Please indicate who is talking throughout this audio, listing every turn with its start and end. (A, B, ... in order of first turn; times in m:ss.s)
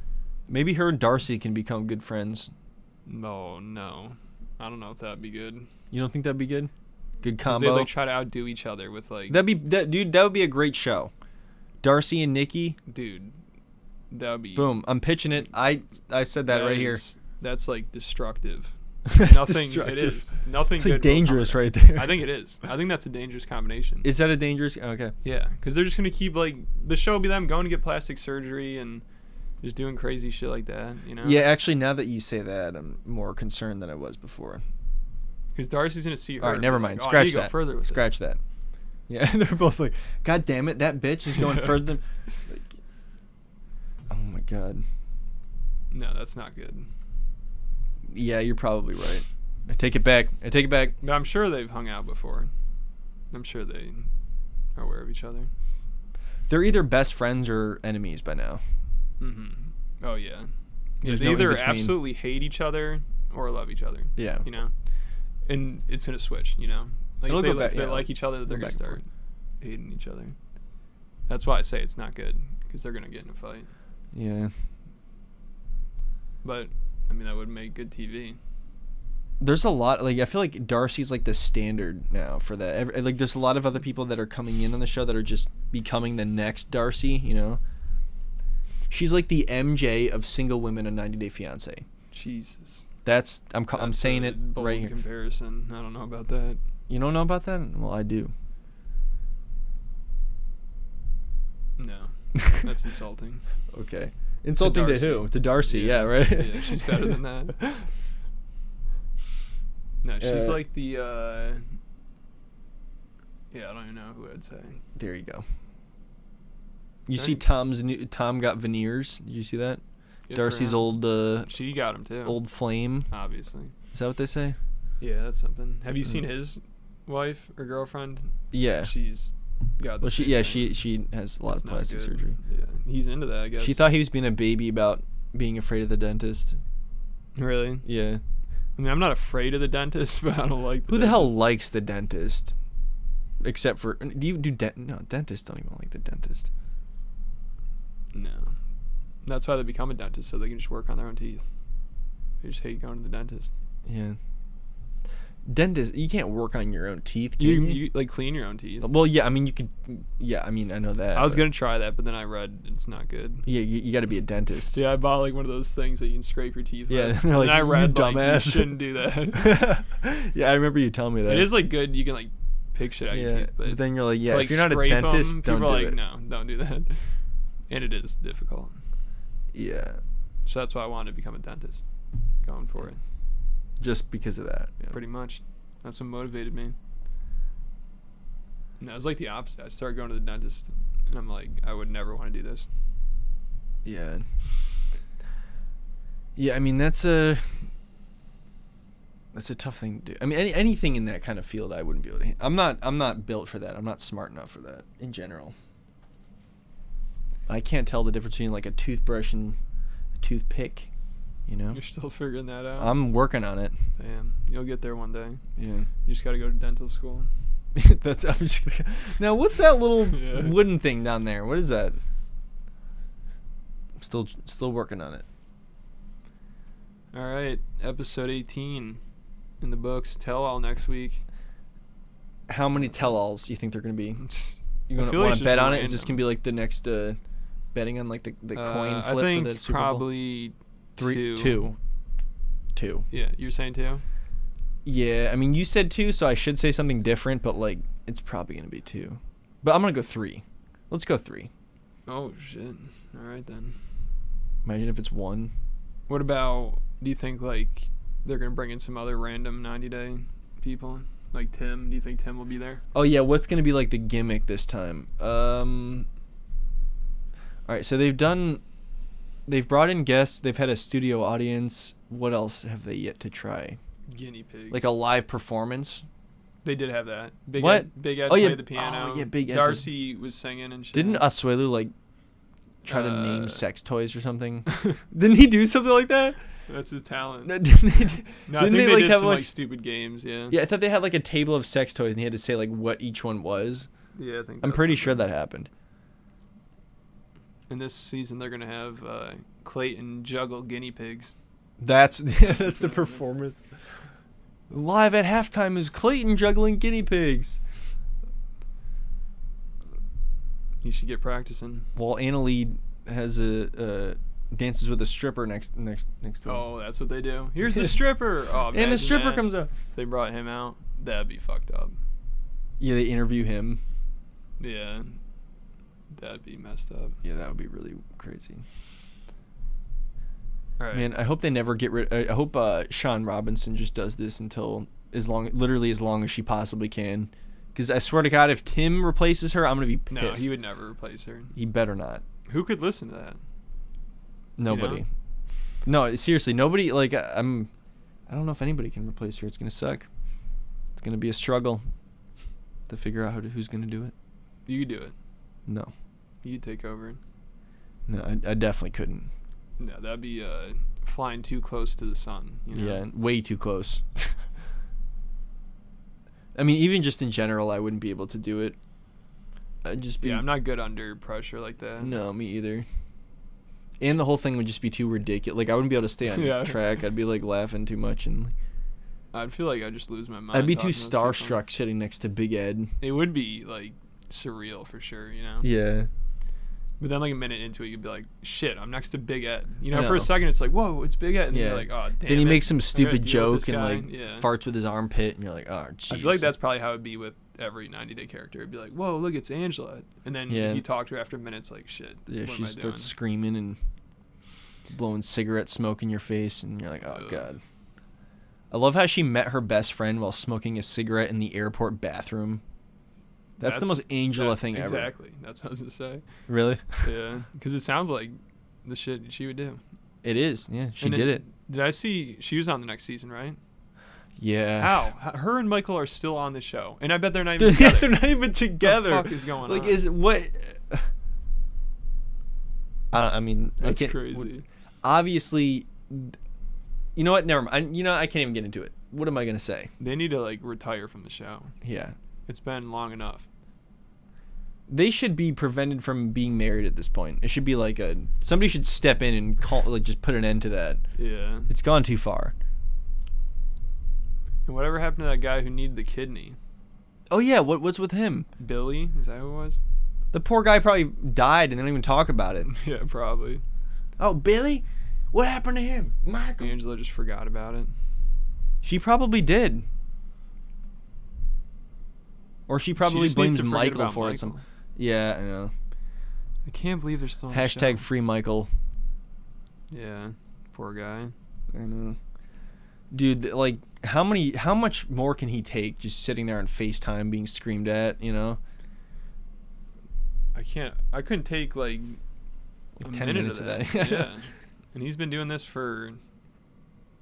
0:00.5-0:02.5 A
0:03.1-0:05.7 B
0:05.9-0:06.7 A
0:07.2-0:07.9 A
0:07.5-0:09.4 B
0:09.3-0:11.1 A
0:11.8-0:12.8 A
0:12.9-0:13.4 B
0:14.1-0:14.7 B
0:14.6-0:17.0 A
0:16.5-0:24.1 B
0:19.1-0:22.2 A
0:24.0-0:25.1 A
0:25.2-0:29.0 B
0:29.6-0:31.4 B
0:31.2-0:34.6 A
0:35.6-0:38.1 B
0:36.4-0:38.4 A
0:39.1-0:42.8 A
0:41.3-0:41.8 B
0:44.1-0:44.8 A
0:45.9-0:46.9 B
0:48.1-0:51.0 A
0:51.0-0:52.5 B
0:53.3-0:54.1 B
0:54.8-0:55.5 B
0:56.5-0:58.6 A
0:59.2-1:00.5 B
1:01.0-1:02.0 A
1:01.0-1:04.7 B
1:04.2-1:04.5 A
1:05.5-1:09.1 B
1:07.2-1:09.0 A
1:09.6-1:10.4 B
1:11.3-1:13.7 B
1:14.1-1:14.5 A
1:16.4-1:18.4 B
1:19.4-1:27.6 A
1:28.9-1:31.9 A
1:32.1-1:32.9 B
1:33.0-1:34.9 A
1:33.7-1:36.6 B
1:36.9-1:38.3 A
1:41.8-1:43.4 B
1:43.7-1:47.9 A
1:44.6-1:47.6 B
1:50.0-1:51.6 B
1:50.2-1:50.6 A
1:53.5-1:54.8 B
1:55.0-1:55.4 A
1:57.1-1:59.8 A
1:57.1-1:57.4 B
2:00.3-2:02.4 B
2:00.3-2:01.5 A
2:02.2-2:03.1 A
2:03.1-2:03.7 B
2:03.9-2:04.6 A
2:05.0-2:10.8 B
2:08.5-2:08.9 A
2:10.0-2:12.4 A
2:11.5-2:13.9 B
2:13.6-2:16.6 A
2:17.4-2:17.9 B
2:17.8-2:18.2 A
2:18.8-2:21.4 B
2:20.9-2:22.6 A
2:23.4-2:26.5 A
2:28.1-2:28.6 B
2:29.2-2:31.5 B
2:32.4-2:33.5 B
2:33.9-2:34.2 A
2:35.4-2:37.8 A
2:37.4-2:38.9 B
2:38.8-2:41.5 A
2:41.1-2:43.5 B
2:43.5-2:44.8 A
2:44.7-2:49.5 B
2:46.9-2:48.8 A
2:49.3-2:51.6 A
2:51.3-2:57.0 B
2:53.1-2:56.0 A
2:57.7-2:58.8 B
2:59.5-3:00.0 A
3:00.5-3:01.8 B
3:02.4-3:03.0 B
3:03.8-3:05.0 A
3:04.9-3:06.8 B
3:08.8-3:12.7 B
3:13.8-3:14.2 A
3:16.4-3:17.6 A
3:19.3-3:25.6 A
3:27.5-3:29.6 A
3:30.2-3:30.9 A
3:31.5-3:31.8 A
3:31.7-3:33.0 B
3:32.8-3:33.8 A
3:34.0-3:35.4 B
3:35.6-3:35.9 A
3:36.0-3:37.3 B
3:37.8-3:42.0 A
3:40.1-3:40.6 B
3:44.0-3:45.2 A
3:47.1-3:49.0 B
3:49.6-3:51.2 B
3:52.5-3:54.2 A
3:54.2-3:56.2 B
3:54.9-3:57.2 A
3:57.7-4:00.1 A
3:58.5-4:01.6 B
4:01.0-4:01.8 A
4:02.8-4:03.1 A
4:03.1-4:04.0 B
4:04.8-4:11.5 A
4:12.1-4:13.8 B
4:14.6-4:15.5 A
4:16.1-4:22.8 B
4:22.9-4:26.1 A
4:27.7-4:28.6 A
4:29.5-4:33.8 A
4:34.1-4:34.9 B
4:34.7-4:36.1 A
4:36.6-4:41.3 B
4:37.6-4:39.9 A
4:40.9-4:41.9 A
4:42.9-4:43.6 B
4:42.9-4:46.4 A
4:44.7-4:45.0 B
4:46.7-4:47.6 B
4:47.4-4:49.5 A
4:48.5-4:50.6 B
4:50.5-4:53.9 A
4:54.2-4:55.2 B
4:54.6-4:55.7 A
4:57.7-5:01.4 B
5:01.8-5:03.6 A
5:02.4-5:03.2 B
5:04.7-5:07.6 A
5:10.8-5:11.9 B
5:12.0-5:16.6 A
5:16.5-5:22.0 B
5:18.7-5:19.7 A
5:22.8-5:23.8 A
5:24.6-5:25.2 B
5:26.1-5:27.2 B
5:27.2-5:28.6 A
5:30.8-5:31.1 B
5:30.9-5:40.5 A
5:40.1-5:41.5 B
5:41.6-5:42.2 A
5:42.5-5:43.4 B
5:44.6-5:45.1 A
5:44.7-5:45.0 B
5:45.8-5:47.7 A
5:48.3-5:50.1 A
5:51.0-5:51.8 A
5:52.9-5:54.1 A
5:54.7-5:55.1 B
5:55.7-5:55.9 A
5:56.4-5:57.2 B
5:58.1-5:59.3 A
5:59.8-6:03.0 B
6:02.7-6:04.4 A
6:06.6-6:08.8 A
6:09.8-6:10.5 A
6:10.2-6:12.2 B
6:12.0-6:12.9 A
6:14.0-6:18.5 A
6:16.3-6:16.8 B
6:19.3-6:21.6 B
6:20.5-6:22.9 A
6:23.0-6:25.7 B
6:25.6-6:26.1 A
6:27.0-6:34.5 B
6:29.9-6:30.3 A
6:31.5-6:36.5 A
6:36.1-6:43.1 B
6:40.5-6:40.9 A
6:42.3-6:43.8 A
6:44.9-6:47.6 A
6:47.1-6:47.5 B
6:48.7-6:52.6 A
6:53.6-6:55.1 A
6:53.6-6:56.2 B
6:56.5-6:57.1 A
6:57.0-6:59.8 B
7:00.2-7:01.4 A
7:01.0-7:03.6 B
7:04.4-7:05.0 A
7:04.8-7:08.2 B
7:07.6-7:11.1 A
7:08.8-7:10.0 B
7:13.1-7:14.5 A
7:13.8-7:14.6 B
7:15.0-7:16.4 A
7:17.2-7:19.9 A
7:20.0-7:21.7 B
7:21.8-7:22.2 A
7:22.5-7:23.5 B
7:24.9-7:31.0 A
7:31.2-7:31.7 B
7:31.7-7:32.6 A
7:34.7-7:36.6 B
7:37.3-7:38.5 A
7:38.6-7:39.8 B
7:40.3-7:42.7 A
7:42.7-7:43.6 B
7:44.2-7:46.7 A
7:46.6-7:47.9 B
7:48.8-7:49.8 A
7:52.7-7:55.7 A
7:53.0-7:54.6 B
7:56.7-7:58.0 B
7:57.5-7:58.7 A
7:59.9-8:01.3 B
8:01.7-8:02.2 A
8:03.1-8:08.6 A
8:10.6-8:12.2 B
8:13.0-8:14.3 A
8:13.0-8:16.2 B